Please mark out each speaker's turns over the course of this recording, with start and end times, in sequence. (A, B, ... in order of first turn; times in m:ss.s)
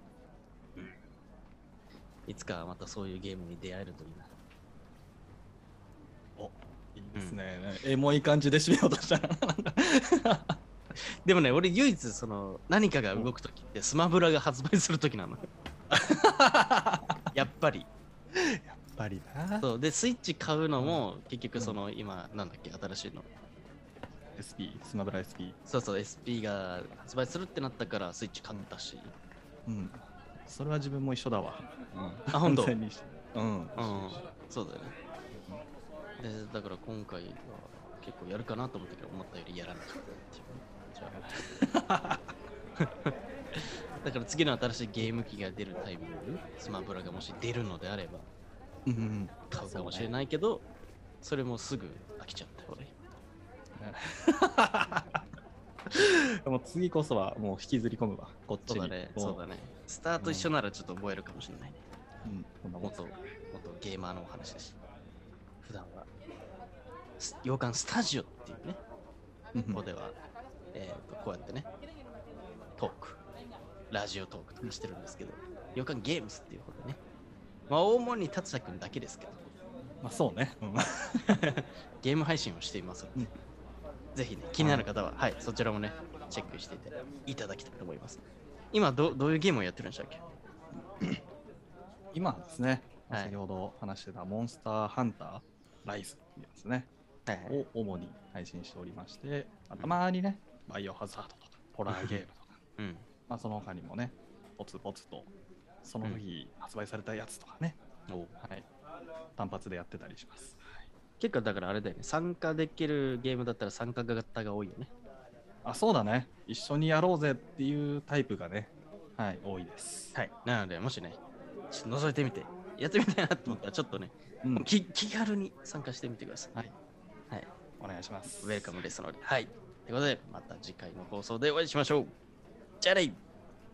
0:02.3-0:04.3 A
0:06.4-0:10.6 B
0:11.2-0:15.4 A
0:15.9-0:17.2 B
0:17.3-0:17.9 A
0:18.3-0:19.7 B
0:19.6-0:23.3 A
0:20.8-0:21.0 B
0:24.4-0:25.6 B
0:25.6-0:29.1 A
0:29.6-0:34.2 B
0:32.3-0:32.8 A
0:33.8-0:35.0 A
0:35.3-0:35.6 B
0:36.2-0:41.3 A
0:41.0-0:42.3 B
0:42.8-0:48.3 A
0:48.8-0:50.1 B
0:49.5-0:50.6 A
0:51.2-0:52.9 A
0:53.8-0:55.2 B
0:55.9-0:59.4 B
0:58.6-1:01.8 A
1:00.2-1:00.5 B
1:02.2-1:03.0 B
1:02.8-1:04.8 A
1:05.6-1:06.1 A
1:07.2-1:08.8 A
1:09.5-1:09.8 B
1:09.7-1:10.2 A
1:10.7-1:11.7 A
1:12.8-1:13.2 A
1:13.9-1:17.0 A
1:17.7-1:19.4 A
1:20.0-1:21.4 B
1:21.3-1:23.3 A
1:24.1-1:30.2 A
1:24.6-1:24.9 B
1:32.1-1:36.9 B
1:37.3-1:37.6 A
1:37.5-1:42.6 B
1:41.9-1:42.2 A
1:42.8-1:43.0 A
1:43.3-1:45.3 B
1:45.8-1:47.8 B
1:48.1-1:48.3 A
1:48.4-1:48.7 B
1:49.4-1:50.6 B
1:51.2-1:54.9 A
1:55.6-2:00.2 B
2:00.1-2:06.5 A
2:07.8-2:08.7 B
2:08.4-2:12.1 A
2:12.8-2:13.2 A